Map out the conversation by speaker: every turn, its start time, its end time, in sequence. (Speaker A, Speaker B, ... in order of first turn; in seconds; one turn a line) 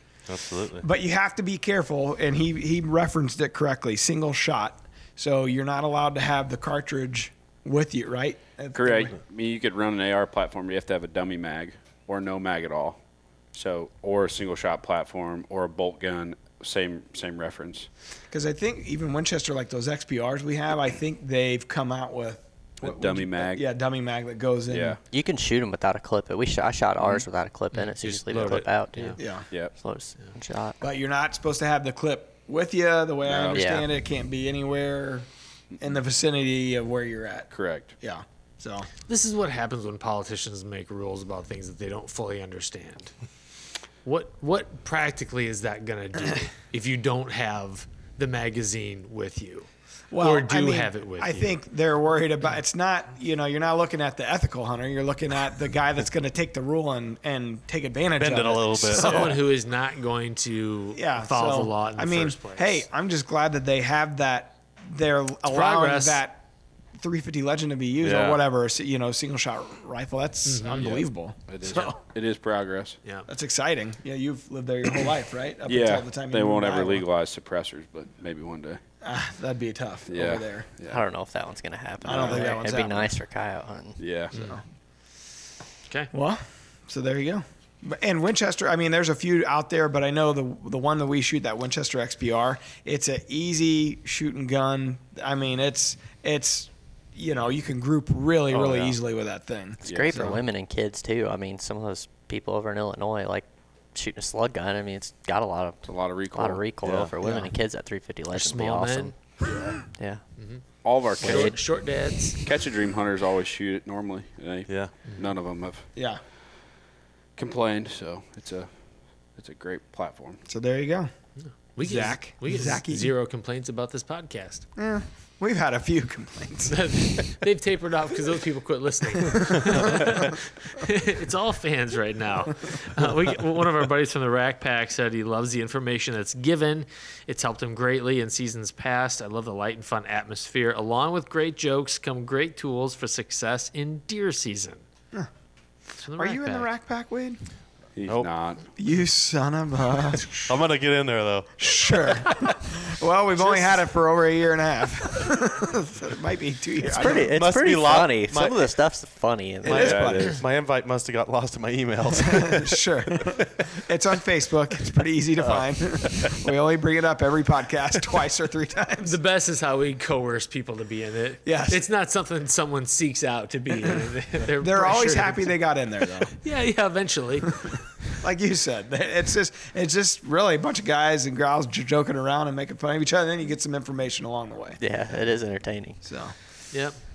Speaker A: 0.3-0.8
Speaker B: 0.8-9.2
Speaker C: 8.7-13.0
Speaker C: 13.5-17.9
Speaker B: 18.3-25.0
Speaker C: 22.8-23.6
Speaker C: 24.7-25.0
Speaker D: 25.1-30.8
Speaker C: 27.0-27.2
Speaker E: 27.7-29.2
Speaker B: 29.2-29.4
Speaker B: 30.8-35.2
Speaker C: 33.2-33.6
Speaker D: 33.5-33.9
Speaker B: 35.8-37.5
Speaker C: 37.5-37.9
Speaker B: 38.0-38.9
Speaker E: 39.1-43.1
Speaker E: 44.0-49.7
Speaker B: 50.1-59.3
Speaker E: 50.2-51.5
Speaker A: 58.2-59.4
Speaker E: 58.9-62.9
Speaker B: 60.9-66.4
Speaker E: 65.5-66.2
Speaker B: 67.0-72.0
Speaker A: 68.0-68.4
Speaker E: 70.5-70.9
Speaker C: 70.8-73.0
Speaker B: 73.3-77.0
Speaker C: 75.7-78.8
Speaker B: 79.0-80.7
Speaker C: 80.1-81.0
Speaker D: 80.9-84.0
Speaker C: 82.0-82.5
Speaker B: 82.0-83.1
Speaker C: 84.0-84.3
Speaker E: 84.3-84.6
Speaker B: 84.3-84.6
Speaker B: 86.1-100.4
Speaker C: 98.5-98.9
Speaker D: 99.8-109.1
Speaker C: 99.8-100.3
Speaker C: 105.9-106.7
Speaker A: 106.8-107.2
Speaker B: 107.2-107.5
Speaker E: 108.3-109.1
Speaker D: 110.0-110.2
Speaker C: 110.8-111.6
Speaker D: 111.2-111.6
Speaker E: 111.2-112.4
Speaker C: 112.4-115.9
Speaker A: 114.7-114.9
Speaker B: 116.0-116.2
Speaker C: 117.3-120.4
Speaker B: 120.5-121.1
Speaker E: 121.4-124.7
Speaker B: 121.8-123.1
Speaker B: 124.8-126.8
Speaker E: 126.7-144.8
Speaker B: 129.2-129.9
Speaker E: 146.0-146.7
Speaker B: 146.2-147.4
Speaker C: 147.9-148.7
Speaker A: 148.0-148.3
Speaker B: 148.8-150.5
Speaker A: 150.5-151.9
Speaker B: 151.6-157.3
Speaker E: 153.4-153.8
Speaker D: 156.8-160.1
Speaker A: 157.2-158.7
Speaker B: 159.6-160.4
Speaker A: 159.6-163.5
Speaker C: 159.7-160.3
Speaker B: 162.2-169.2
Speaker A: 165.4-166.3
Speaker E: 169.0-175.5
Speaker B: 171.4-171.8
Speaker B: 174.6-176.3
Speaker E: 176.4-177.8
Speaker B: 178.2-184.8
Speaker D: 184.8-186.0
Speaker B: 186.0-186.3
Speaker E: 186.7-187.0